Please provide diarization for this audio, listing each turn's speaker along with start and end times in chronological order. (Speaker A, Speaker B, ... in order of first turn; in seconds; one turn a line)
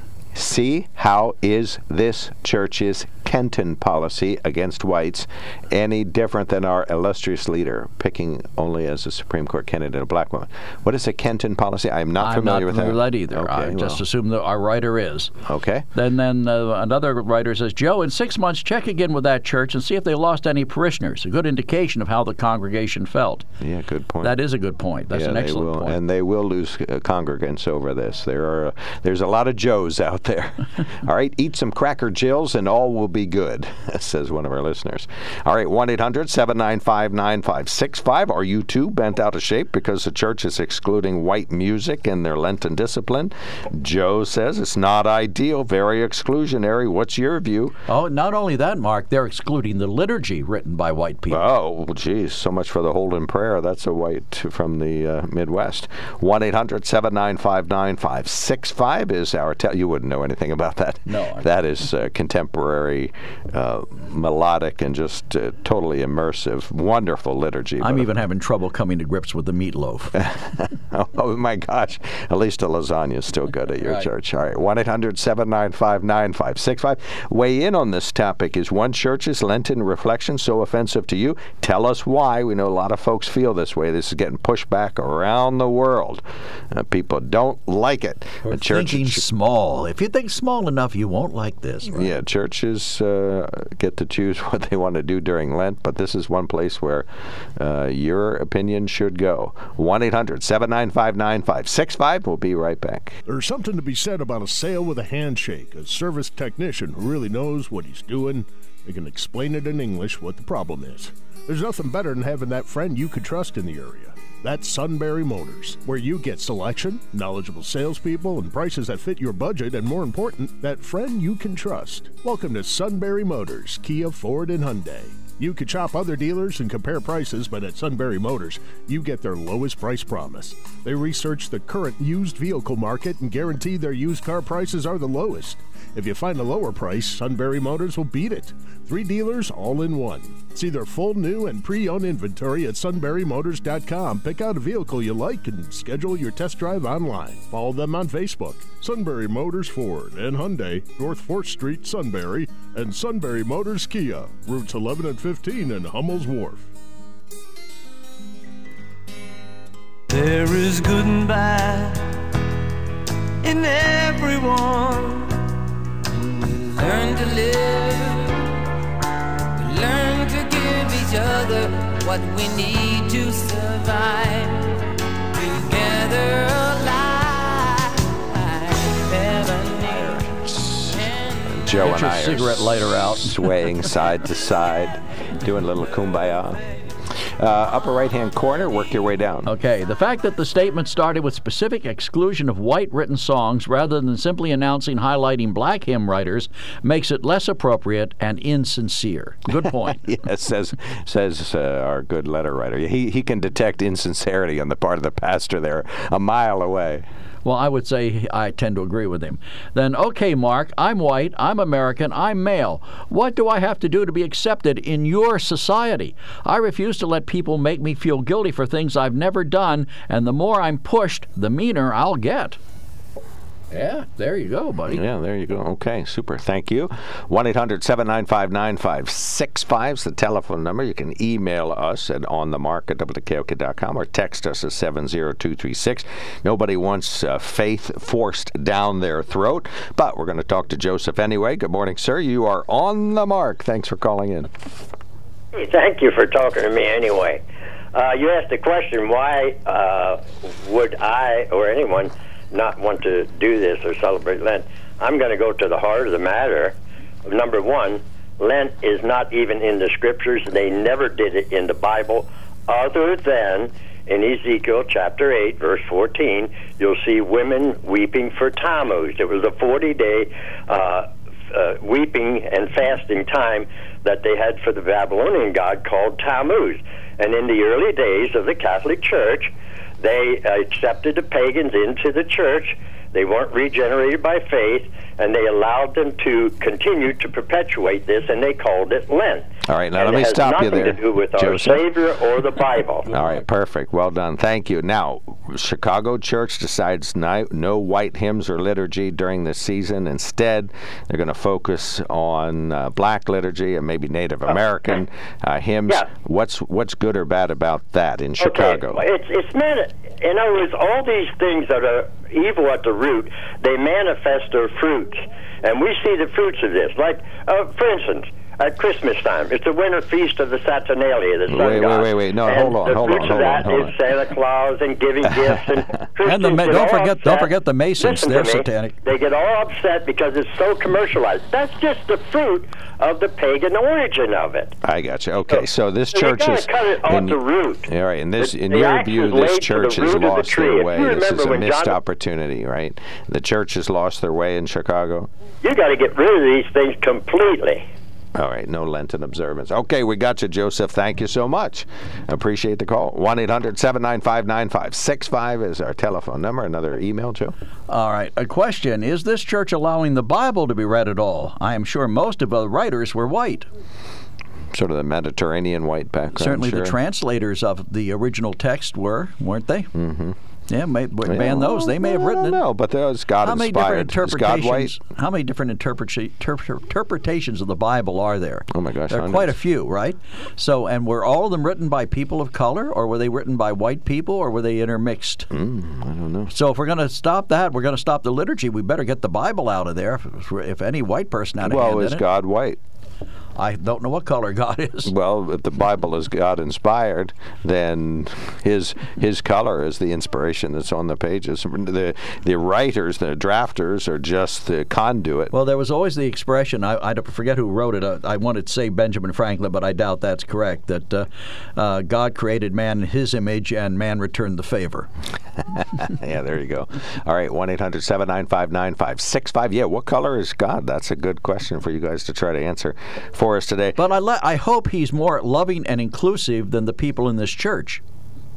Speaker A: 0.3-14.0
Speaker B: 12.2-15.3
Speaker A: 15.4-15.9
Speaker B: 15.9-23.5
Speaker A: 23.6-24.4
Speaker B: 24.2-26.0
Speaker A: 25.1-47.8
Speaker B: 47.9-51.4
Speaker A: 51.3-68.1
Speaker B: 61.1-61.5
Speaker B: 67.8-70.2
Speaker A: 70.1-89.2
Speaker B: 88.5-92.1
Speaker A: 91.9-103.2
Speaker C: 103.3-156.7
Speaker D: 160.1-162.0
Speaker D: 163.4-165.4
Speaker D: 166.2-168.5
Speaker D: 169.6-174.8
Speaker D: 175.3-180.2
Speaker A: 179.8-189.5
Speaker D: 180.9-181.5
Speaker B: 181.8-183.6
Speaker B: 189.5-200.0
Speaker A: 199.6-207.1
Speaker B: 207.4-222.6
Speaker B: 223.7-225.0
Speaker A: 224.9-244.5
Speaker E: 245.5-247.4
Speaker E: 247.9-256.8
Speaker E: 257.3-293.1
Speaker A: 289.6-291.9
Speaker A: 293.1-309.0
Speaker B: 293.1-293.4
Speaker E: 308.4-334.8
Speaker A: 321.5-324.0
Speaker A: 325.2-325.9
Speaker B: 326.2-329.0
Speaker A: 334.8-345.3
Speaker E: 336.1-337.9
Speaker E: 338.4-342.0
Speaker E: 345.6-347.9
Speaker A: 348.4-357.6
Speaker B: 357.9-363.7
Speaker A: 364.7-367.0
Speaker B: 366.4-369.9
Speaker A: 369.9-370.4
Speaker B: 370.7-372.6
Speaker A: 371.3-375.0
Speaker B: 373.4-385.5
Speaker A: 378.7-379.6
Speaker A: 385.5-386.5
Speaker B: 386.5-392.2
Speaker A: 391.6-392.8
Speaker B: 393.6-395.1
Speaker A: 395.1-405.5
Speaker B: 405.5-415.1
Speaker A: 415.7-424.0
Speaker B: 424.0-428.0